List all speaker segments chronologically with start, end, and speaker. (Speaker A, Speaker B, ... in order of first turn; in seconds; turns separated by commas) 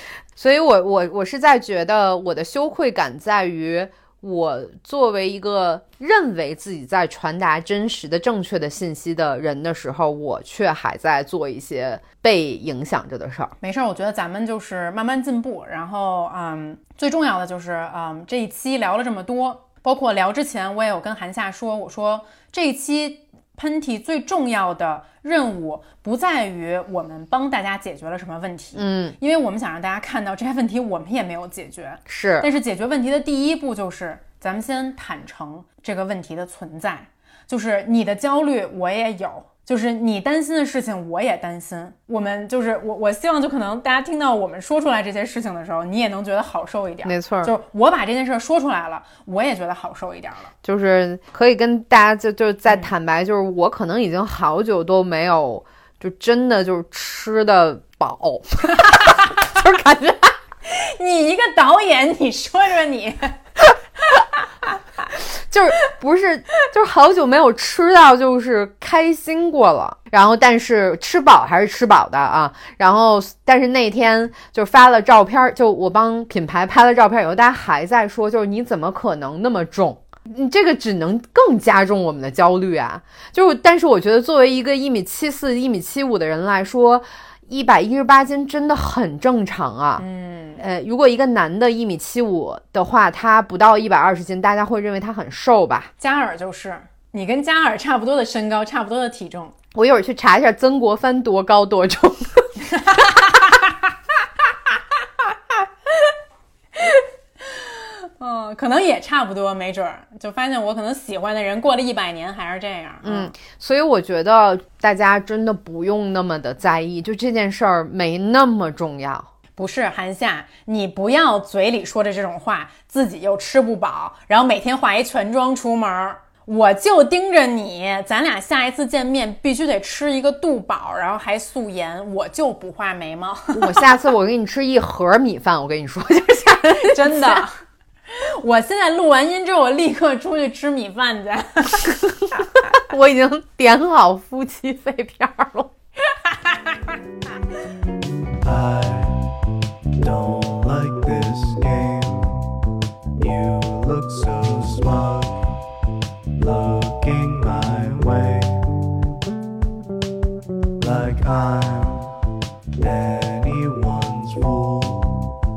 Speaker A: 0.4-13.5, Speaker B: 13.6-50.5, Speaker A: 28.7-29.2, Speaker A: 32.1-32.5, Speaker A: 47.0-47.5, Speaker A: 50.6-60.4, Speaker B: 60.7-63.4, Speaker A: 65.4-90.0, Speaker B: 90.0-90.6, Speaker A: 90.6-95.9, Speaker B: 96.0-99.5, Speaker A: 99.7-102.5, Speaker B: 102.8-103.5, Speaker B: 106.8-113.3, Speaker A: 113.0-119.3, Speaker B: 119.6-133.9, Speaker A: 133.5-137.4, Speaker B: 136.7-137.6, Speaker B: 138.1-142.0, Speaker A: 142.8-145.7, Speaker B: 146.4-146.7, Speaker C: 148.4-149.2, Speaker C: 149.9-152.5, Speaker C: 153.2-155.4, Speaker C: 156.4-158.6, Speaker C: 160.8-162.1, Speaker C: 162.8-165.2